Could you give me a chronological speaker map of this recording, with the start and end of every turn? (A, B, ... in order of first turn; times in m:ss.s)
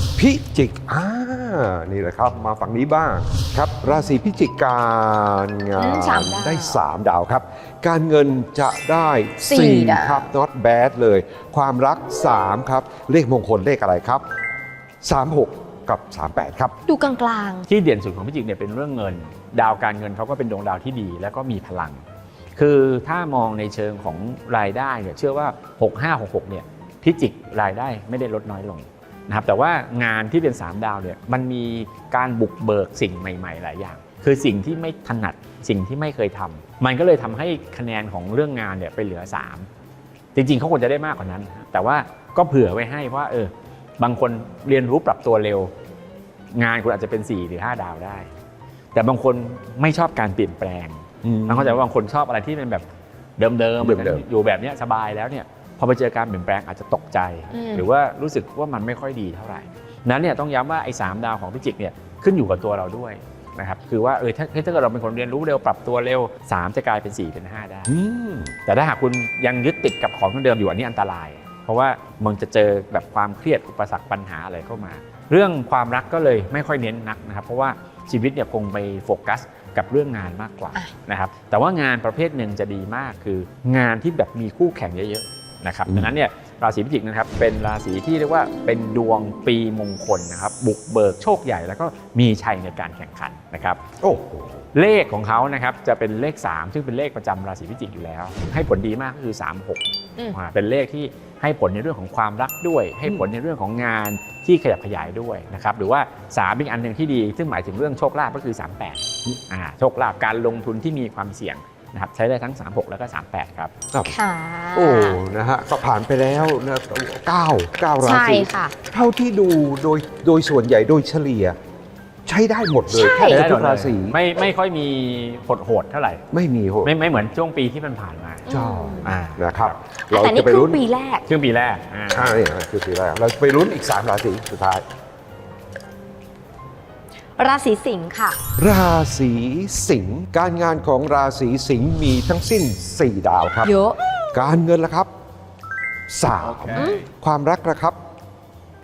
0:00.2-0:14.2 A
0:05.8-0:06.8 B
0:09.4-0:10.3 B
0:15.0-0:16.7 A
0:16.9-0:17.7 B
0:17.7-0:22.0 C
0:22.6-0:39.7 C
0:40.3-0:45.7 C
0:46.5-0:48.3 C
0:48.9-0:52.8 C
0:51.2-0:51.8 A
0:53.4-1:08.0 C
0:53.8-0:54.2 A
0:57.5-0:57.9 B
1:07.9-1:08.5 A
1:08.6-1:33.8 C
1:34.0-1:34.6 A
1:34.7-1:53.7 C
1:54.0-1:55.2 B
1:54.7-2:01.6 A
1:58.0-1:58.7 B
2:02.2-2:04.2 A
2:02.9-2:03.4 B
2:03.2-2:06.2 C
2:06.3-2:06.9 A
2:06.8-2:08.5 C
2:08.4-2:09.2 B
2:08.5-2:10.8 A
2:09.0-2:09.8 C
2:10.1-2:11.2 B
2:11.3-2:12.4 C
2:12.1-2:14.8 A
2:17.4-2:18.4 B
2:18.6-2:23.7 A
2:23.6-2:24.0 B
2:24.3-2:25.1 A
2:26.1-2:28.0 A
2:26.7-2:27.0 B